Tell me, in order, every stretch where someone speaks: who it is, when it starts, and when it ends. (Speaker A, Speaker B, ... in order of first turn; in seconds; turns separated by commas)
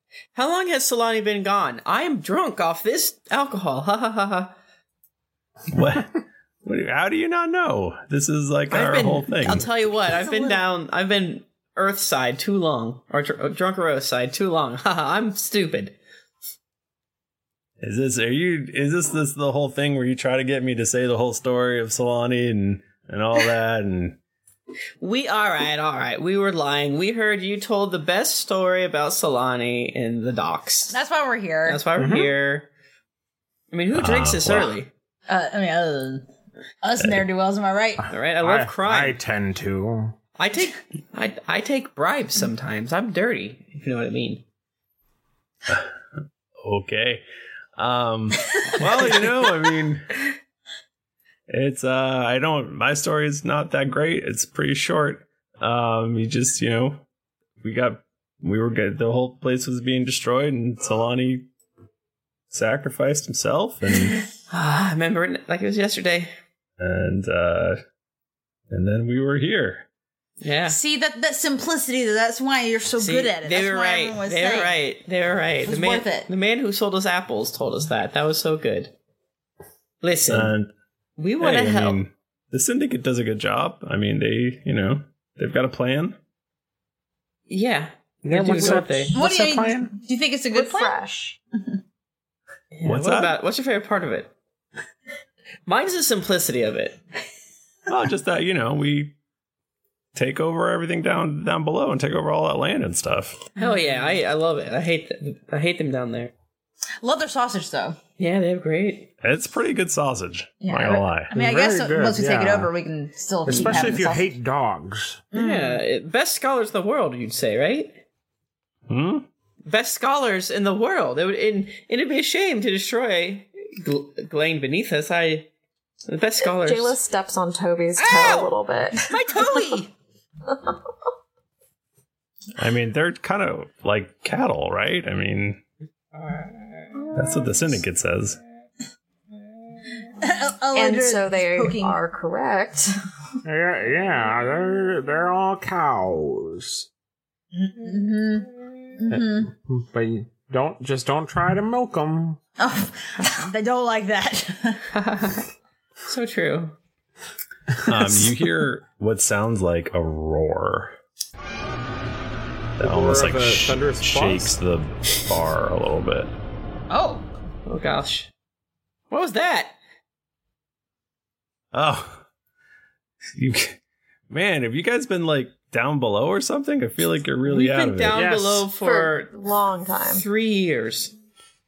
Speaker A: 0.3-4.5, Speaker B: 5.7-9.7, Speaker A: 8.7-15.9, Speaker C: 10.1-10.6, Speaker B: 17.8-24.2, Speaker A: 25.0-30.9, Speaker C: 30.9-31.8, Speaker A: 31.6-32.7, Speaker D: 31.9-32.3, Speaker A: 33.7-34.9, Speaker B: 33.9-34.8, Speaker C: 35.3-36.2, Speaker C: 36.8-38.0, Speaker A: 38.1-39.2, Speaker D: 38.3-40.1, Speaker A: 40.4-44.4, Speaker B: 46.6-47.2, Speaker B: 47.8-50.2, Speaker B: 51.5-57.0, Speaker B: 57.6-61.5, Speaker B: 62.5-64.2, Speaker A: 64.5-66.3, Speaker B: 66.8-67.8, Speaker B: 68.7-69.8, Speaker A: 70.4-70.8, Speaker C: 70.7-74.7, Speaker A: 73.0-78.9, Speaker C: 75.7-76.3, Speaker A: 80.0-80.5, Speaker B: 80.3-80.7, Speaker A: 81.2-82.0, Speaker B: 81.4-86.2, Speaker A: 87.5-89.2, Speaker D: 88.2-89.9, Speaker C: 88.7-91.0, Speaker E: 90.5-91.4, Speaker A: 92.7-94.3, Speaker B: 92.8-93.3, Speaker A: 95.7-97.0, Speaker B: 97.9-99.1, Speaker B: 100.1-103.4, Speaker C: 103.6-104.0, Speaker A: 103.6-106.3, Speaker C: 107.0-108.0, Speaker A: 108.2-109.1, Speaker B: 109.2-111.3, Speaker C: 110.6-114.3, Speaker D: 111.3-112.7, Speaker D: 113.5-115.2, Speaker A: 113.5-113.9, Speaker C: 115.3-115.8, Speaker A: 115.3-118.0, Speaker B: 118.9-119.2, Speaker A: 119.7-125.5, Speaker A: 126.0-127.0, Speaker E: 126.4-129.7, Speaker A: 128.0-128.6, Speaker A: 129.1-129.9, Speaker B: 132.6-135.6, Speaker B: 137.1-138.4, Speaker C: 140.2-142.0, Speaker E: 140.7-142.9, Speaker D: 143.4-146.8, Speaker C: 147.5-149.5, Speaker D: 149.1-152.4, Speaker C: 152.6-154.8, Speaker A: 154.9-155.4, Speaker A: 156.1-156.7, Speaker B: 157.9-160.9, Speaker B: 162.8-166.3, Speaker D: 162.8-164.6, Speaker C: 166.9-167.2, Speaker A: 167.7-168.3, Speaker A: 169.1-169.8, Speaker B: 171.7-172.2, Speaker B: 173.3-173.8, Speaker B: 174.3-178.3, Speaker A: 177.4-179.3, Speaker D: 178.1-178.6, Speaker E: 178.7-180.2, Speaker A: 180.1-181.1